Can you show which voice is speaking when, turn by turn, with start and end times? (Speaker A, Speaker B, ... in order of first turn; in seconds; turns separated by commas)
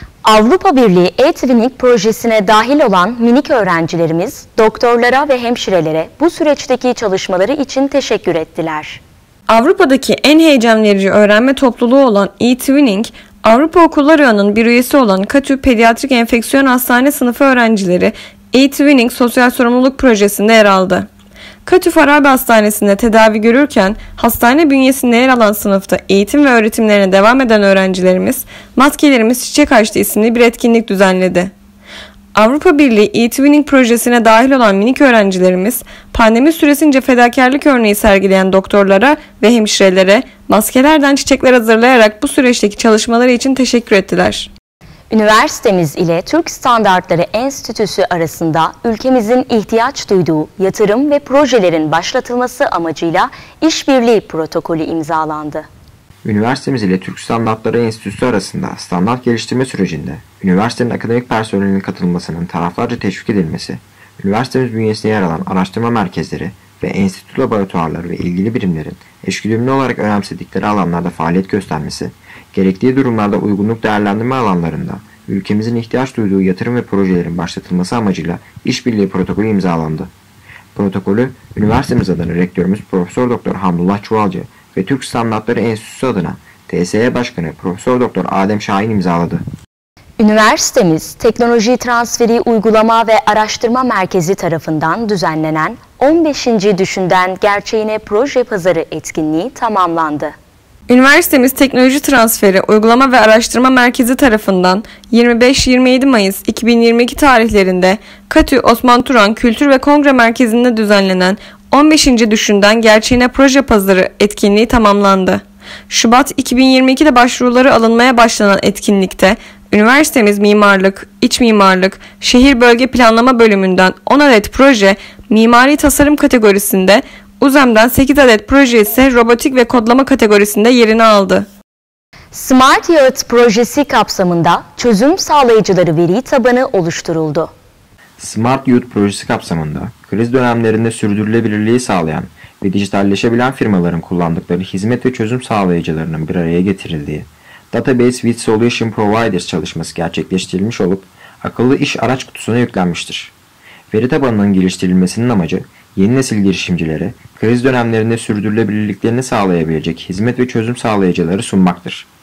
Speaker A: 0.2-9.0, Speaker B: 9.5-21.1, Speaker B: 21.6-31.5, Speaker B: 32.3-44.5, Speaker A: 45.1-55.7, Speaker C: 56.2-80.1, Speaker C: 80.7-89.4, Speaker A: 90.2-100.3, Speaker B: 100.9-131.5, Speaker A: 132.3-137.5, Speaker C: 138.2-153.3, Speaker C: 153.9-162.1